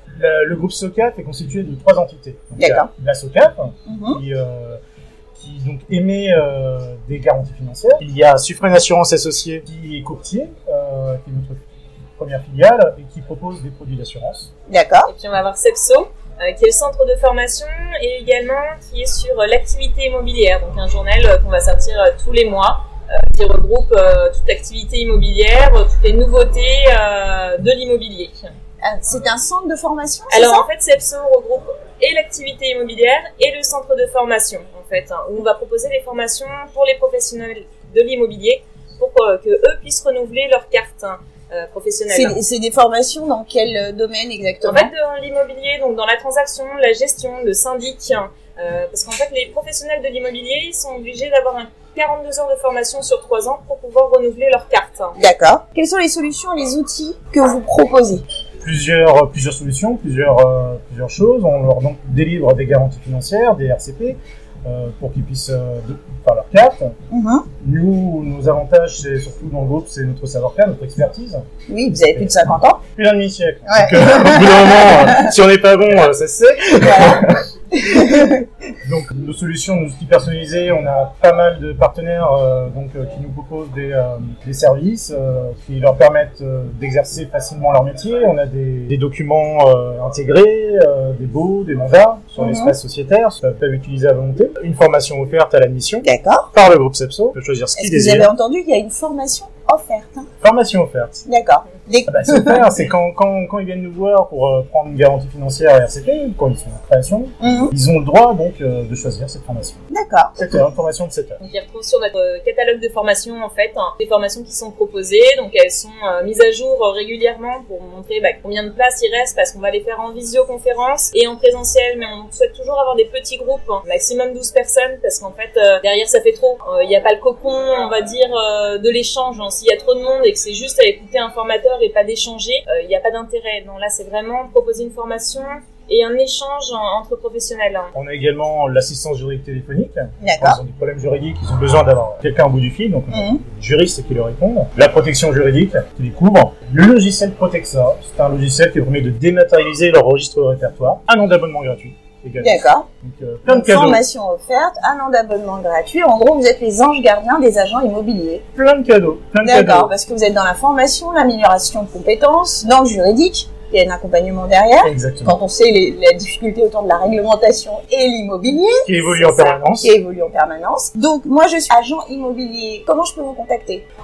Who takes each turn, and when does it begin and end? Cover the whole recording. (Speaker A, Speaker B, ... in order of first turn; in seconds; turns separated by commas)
Speaker A: 0.1-4.8, Speaker B: 2.6-2.9, Speaker B: 3.9-4.2, Speaker A: 5.3-11.6, Speaker A: 12.2-14.5, Speaker B: 14.7-15.1, Speaker C: 15.1-28.5, Speaker B: 28.8-30.7, Speaker C: 30.3-42.4, Speaker B: 42.1-44.9, Speaker C: 44.6-55.1, Speaker B: 55.2-58.2, Speaker A: 58.6-66.9, Speaker B: 67.1-67.5, Speaker A: 67.6-71.4, Speaker B: 71.7-72.8, Speaker A: 72.9-77.3, Speaker B: 73.7-75.2, Speaker B: 76.8-78.4, Speaker A: 78.8-98.3, Speaker B: 92.4-92.7, Speaker B: 96.0-96.5, Speaker B: 97.8-100.3, Speaker A: 100.4-101.2, Speaker B: 101.2-102.6, Speaker A: 102.1-109.8, Speaker B: 107.4-107.7, Speaker B: 109.9-110.4, Speaker A: 110.4-111.4, Speaker C: 111.4-137.9, Speaker A: 137.9-154.0, Speaker B: 140.2-140.6, Speaker B: 143.1-143.4, Speaker B: 152.4-152.9, Speaker B: 153.5-158.4, Speaker A: 158.5-159.9, Speaker B: 159.4-168.9, Speaker A: 164.8-165.4, Speaker A: 168.8-169.9, Speaker C: 169.1-169.6, Speaker B: 169.8-173.8